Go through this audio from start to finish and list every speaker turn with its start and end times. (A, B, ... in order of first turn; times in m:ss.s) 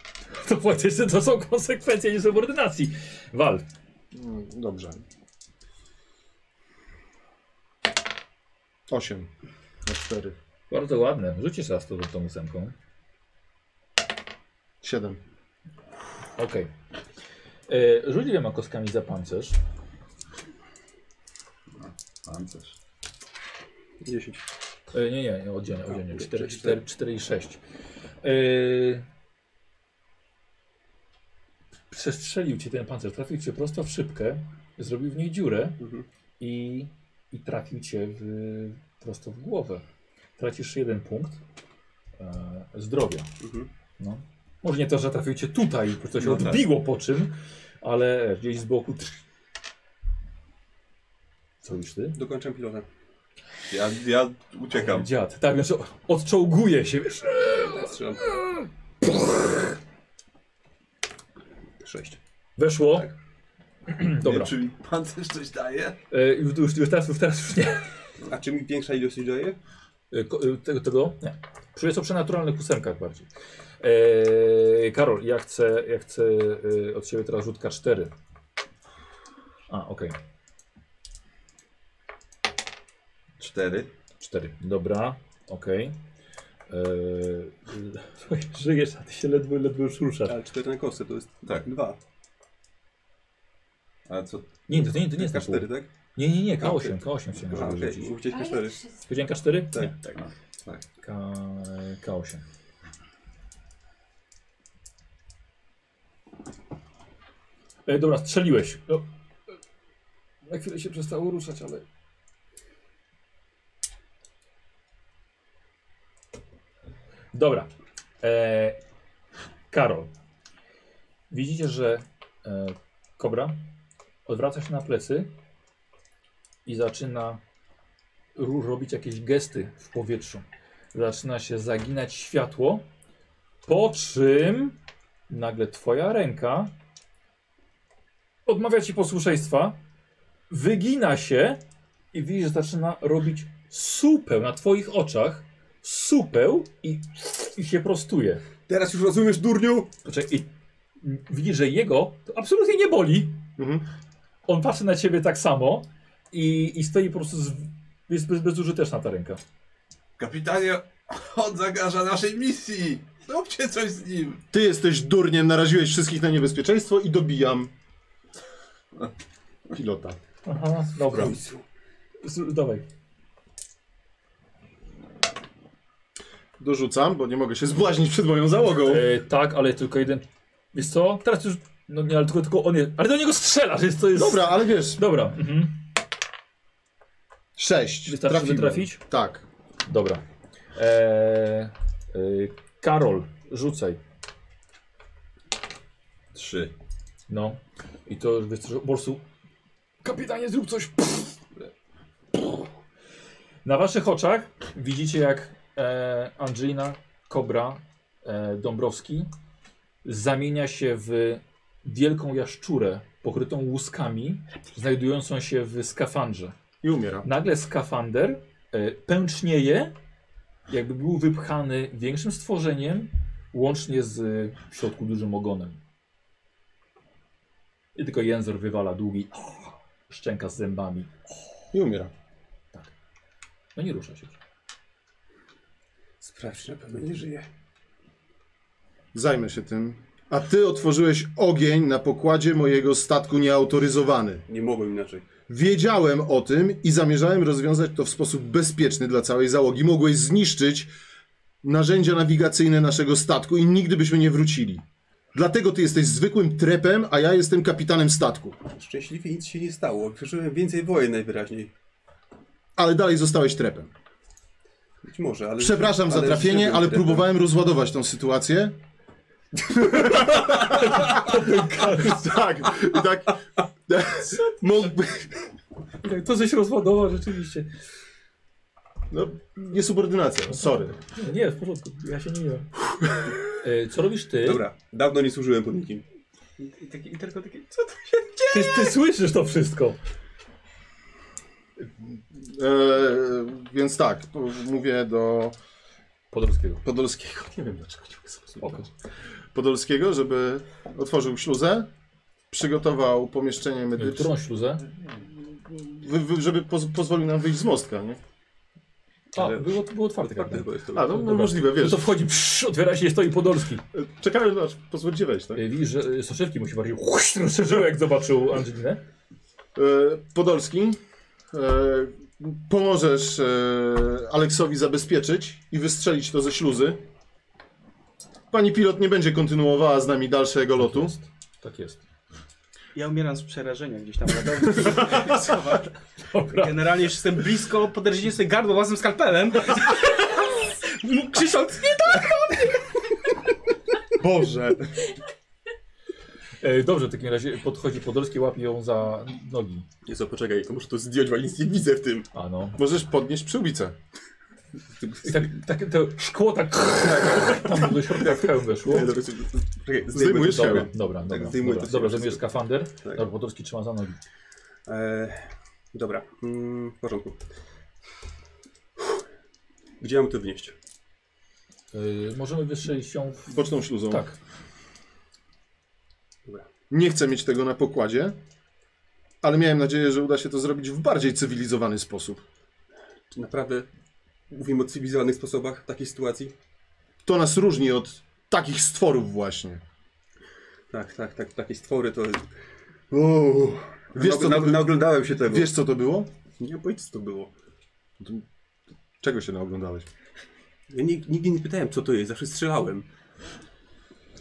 0:00.3-0:03.6 A
0:04.1-0:05.0 B
0:08.9-0:09.3 B
0:09.8-0:10.3 B
0:10.7-0:12.7 A
0:14.8-0:15.2 B
0:16.4-0:16.7 A
0:17.7-0:19.6 A
0:21.8-0:22.7 C
0:24.0-0:24.4 D
0:24.9-0:27.6 A
0:26.0-0:26.8 D
0:28.2-0:29.0 A
0:31.9-0:35.8 A
0:35.8-0:36.0 D
0:36.4-0:39.8 A
0:40.4-0:41.4 A
0:42.2-0:43.3 A
0:43.4-0:43.7 D
0:44.0-0:49.2 A
0:46.2-0:46.6 C
0:51.6-0:52.2 A
0:52.2-0:52.8 D
0:53.7-0:55.1 C
0:54.8-0:57.9 A
0:57.6-0:58.4 D
1:01.8-1:02.2 D
1:02.6-1:03.1 A
1:03.9-1:04.5 A
1:04.2-1:06.0 C
1:06.1-1:07.8 A
1:08.3-1:09.6 D
1:10.1-1:13.3 A
1:13.8-1:18.1 A
1:19.7-1:20.2 A
1:23.4-1:23.9 C
1:24.2-1:26.0 A
1:26.7-1:30.4 A
1:30.3-1:32.0 D
1:34.1-1:34.5 C
1:34.7-1:38.2 A
1:34.7-1:35.9 D
1:36.6-1:38.9 D
1:39.0-1:40.1 A
1:39.7-1:40.1 D
1:40.2-1:40.8 C
1:41.0-1:42.4 A
1:47.8-1:49.0 A
1:50.4-1:51.8 A
1:57.3-1:57.7 A
1:58.2-1:58.8 A
1:59.7-2:00.1 A
2:01.3-2:03.6 A
2:04.2-2:05.3 A
2:06.6-2:07.4 A
2:08.4-2:12.8 A
2:13.6-2:14.8 A
2:15.3-2:16.7 A
2:18.4-2:19.8 A
2:20.5-2:21.6 A
2:22.1-2:28.4 A
2:28.7-2:29.9 D
2:30.0-2:30.5 A
2:31.0-2:33.4 A
2:33.6-2:33.8 B
2:34.5-2:39.4 A
2:40.2-2:44.4 C
2:44.5-2:47.7 B
2:49.7-2:50.2 B
2:50.4-2:51.4 A
2:51.1-2:51.6 D
2:52.2-2:52.8 A
2:56.6-2:59.1 B
2:58.8-3:05.8 A
3:04.1-3:05.0 B
3:07.6-3:09.4 B
3:08.0-3:09.0 A
3:09.9-3:10.2 A
3:10.7-3:14.0 A
3:16.3-3:16.7 C
3:17.3-3:19.2 A
3:20.0-3:21.4 A
3:23.6-3:29.3 A
3:30.0-3:36.5 A
3:36.8-3:37.3 B
3:37.2-3:39.9 A
3:40.7-3:45.8 A
3:47.9-3:51.1 A
3:51.7-3:52.1 B
3:53.8-3:54.4 A
3:56.2-3:57.5 D
3:59.1-4:04.4 B
4:04.5-4:05.3 D
4:05.5-4:10.9 B
4:11.6-4:14.8 B
4:15.3-4:18.6 B
4:18.7-4:21.7 D
4:22.8-4:23.9 B
4:25.0-4:27.2 D
4:25.6-4:28.8 B
4:29.5-4:35.3 B
4:30.4-4:32.3 A
4:36.0-4:37.7 A
4:39.1-4:41.0 B
4:40.6-4:42.7 A
4:43.5-4:44.6 A
4:44.4-4:46.0 D
4:46.6-4:48.9 E
4:48.5-4:50.0 A
4:52.0-4:55.5 B
4:56.3-4:56.8 A
4:56.8-4:58.9 B
4:59.5-5:01.9 B
5:02.5-5:04.3 B
5:04.0-5:04.8 A
5:05.7-5:08.2 B
5:09.3-5:13.8 A
5:09.3-5:11.2 D
5:10.9-5:12.1 B
5:13.9-5:15.6 B
5:15.5-5:19.0 A
5:19.7-5:21.0 B
5:21.5-5:27.0 B
5:28.5-5:31.1 B
5:30.8-5:32.0 A
5:32.9-5:35.9 E
5:36.3-5:37.1 A
5:36.5-5:43.3 E
5:44.2-5:45.1 B
5:46.6-5:49.8 A
5:50.0-5:52.3 D
5:52.3-5:52.8 A
5:52.8-5:54.0 B
5:54.9-5:55.5 D
5:55.2-5:59.1 A
5:57.0-6:02.4 D
6:00.1-6:00.9 B
6:00.3-6:04.2 A
6:04.8-6:07.4 D
6:10.0-6:10.7 D
6:11.9-6:14.4 A
6:13.5-6:14.2 B
6:16.9-6:18.4 B
6:19.4-6:22.4 B
6:23.3-6:23.9 D
6:24.5-6:26.5 D
6:27.2-6:29.8 B
6:30.9-6:32.4 D
6:33.1-6:35.7 D
6:33.1-6:33.4 B
6:34.1-6:36.3 B
6:36.6-6:37.5 D
6:38.2-6:38.4 B
6:39.2-6:40.1 B
6:40.9-6:43.0 D